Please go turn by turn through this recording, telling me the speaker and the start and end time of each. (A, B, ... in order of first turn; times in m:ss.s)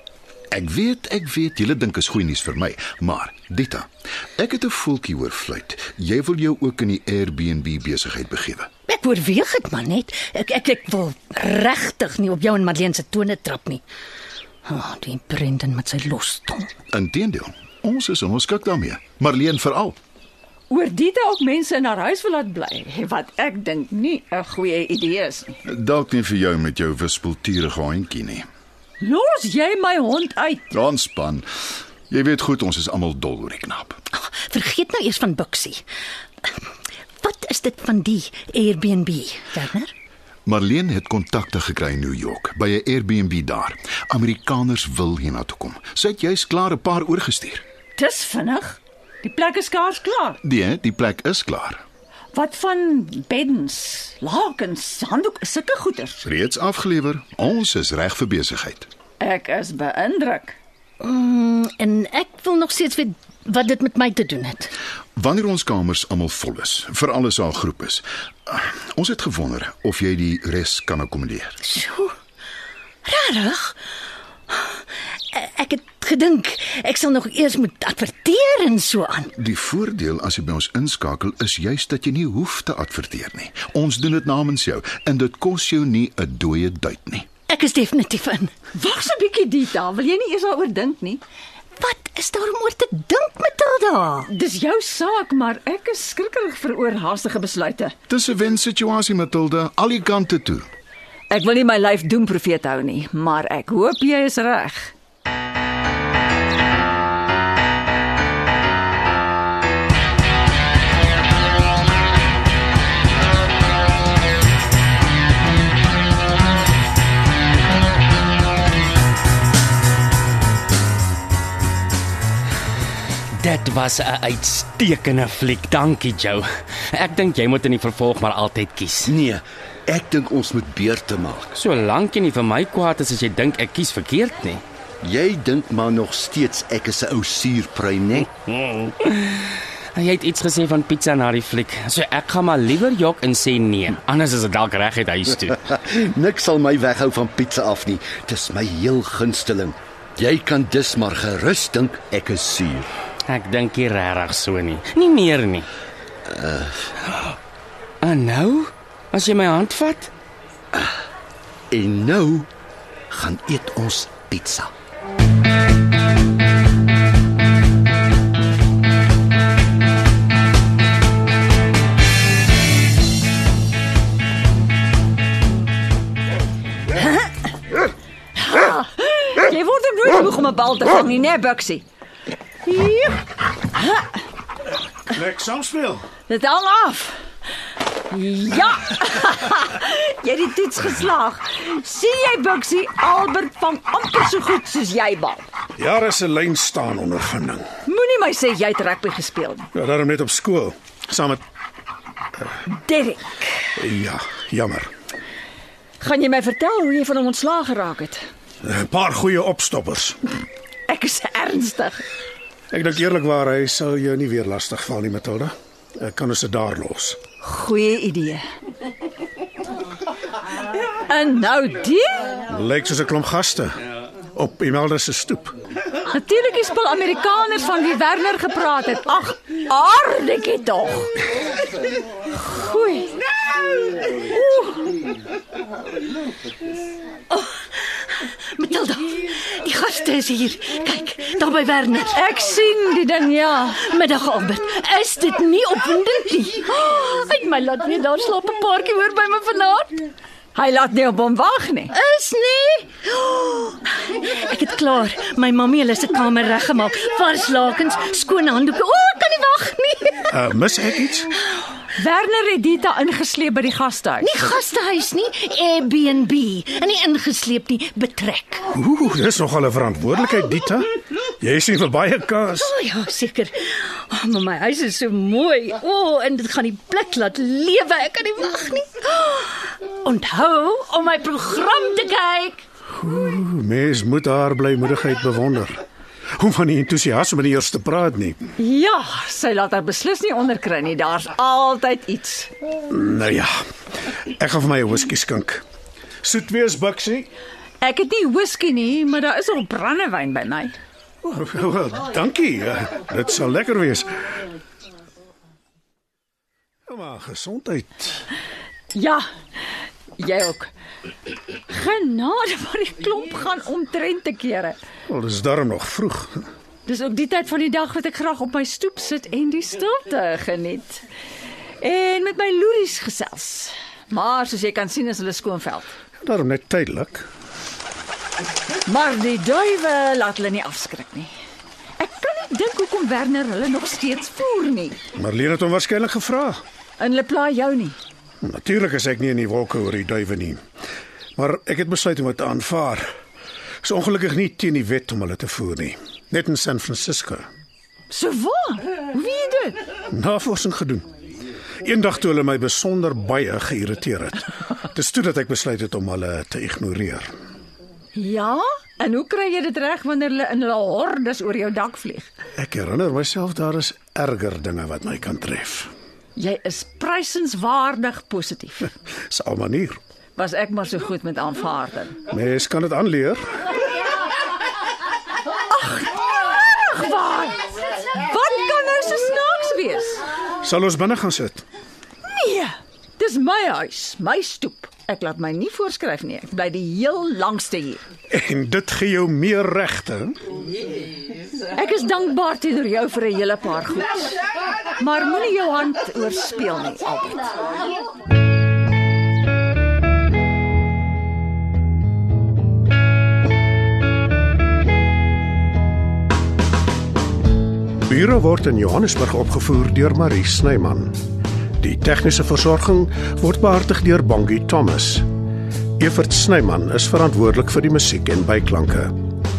0:00.5-0:08.7 A
0:08.9-0:13.8 B
0:14.6-0:16.7 B
0:16.9-0:20.0 A
0:20.7-0:25.6 C
0:25.7-0:28.4 A
0:29.0-0:30.6 C
0:30.7-0:31.5 A
0:32.1-0:34.0 A
0:34.2-0:35.8 B
0:37.2-0:39.9 B
0:40.4-0:47.6 A
0:48.0-0:50.4 C
0:50.4-0:51.8 A
0:52.3-0:56.2 C
0:56.2-0:58.9 A
0:59.2-1:00.6 C
1:01.0-1:04.7 B
1:05.2-1:11.6 A
1:11.6-1:12.1 B
1:13.0-1:13.8 B
1:14.5-1:14.8 B
1:15.3-1:19.3 B
1:19.4-1:27.4 A
1:27.5-1:28.5 B
1:28.7-1:31.2 C
1:31.8-1:34.3 B
1:34.3-1:37.9 C
1:38.1-1:40.7 A
1:41.3-1:44.9 C
2:03.4-2:09.1 D
2:09.0-2:11.5 E
2:11.5-2:14.6 D
2:15.0-2:18.3 E
2:18.2-2:25.7 D
2:25.7-2:32.9 E
2:33.2-2:35.6 D
2:36.3-2:36.8 E
2:38.0-2:40.1 D
2:41.7-2:42.5 E
2:43.1-2:44.7 E
2:58.4-3:01.8 C
3:02.6-3:03.2 C
3:03.7-3:04.1 C
3:05.1-3:06.1 F
3:06.3-3:07.2 C
3:08.1-3:15.4 C
3:15.8-3:17.6 F
3:17.8-3:19.7 C
3:19.7-3:21.4 F
3:22.6-3:23.7 C
3:23.8-3:24.9 F
3:26.0-3:28.2 C
3:28.6-3:30.2 F
3:30.9-3:32.0 C
3:32.7-3:37.2 F
3:37.4-3:38.4 C
3:41.0-3:42.2 C
3:42.5-3:43.8 F
3:44.3-3:45.5 F
3:46.0-3:51.1 C
3:52.5-3:53.2 C
3:54.0-3:55.0 C
3:57.3-4:02.2 B
4:02.1-4:03.8 C
4:03.8-4:10.1 B
4:10.5-4:11.9 C
4:11.9-4:20.3 B
4:20.3-4:21.3 F
4:22.0-4:24.3 C
4:24.2-4:28.7 B
4:28.7-4:32.7 F
4:32.6-4:42.6 B
4:43.0-4:45.8 F
4:46.4-4:48.4 F
4:48.6-4:52.5 C
4:52.9-4:53.6 F
4:54.4-4:55.6 F
4:56.2-4:57.3 F
4:57.8-5:00.8 C
5:01.2-5:04.1 F
5:06.9-5:08.2 F
5:08.9-5:09.2 C
5:10.2-5:10.7 C
5:11.7-5:14.8 C
5:15.1-5:16.5 F
5:16.8-5:21.0 C
5:21.8-5:25.9 C
5:26.2-5:27.3 F
5:28.8-5:31.3 C
5:32.0-5:35.0 C
5:35.2-5:36.6 F
5:37.0-5:38.0 C
5:38.4-5:40.6 F
5:41.4-5:43.1 F
5:43.8-5:47.4 F
5:48.1-5:49.8 C
5:50.1-5:51.1 F
5:51.8-5:57.3 F
5:58.1-6:02.3 C
6:02.6-6:05.9 F
6:06.4-6:08.9 C
6:09.3-6:10.0 F
6:10.4-6:12.2 C
6:12.3-6:13.4 F
6:15.7-6:20.2 C
6:20.6-6:21.6 F
6:22.3-6:28.0 C
6:28.3-6:30.4 F
6:31.7-6:34.3 C
6:35.0-6:37.5 C
6:48.0-6:51.1 F
6:51.8-6:55.2 F
6:56.0-6:59.1 F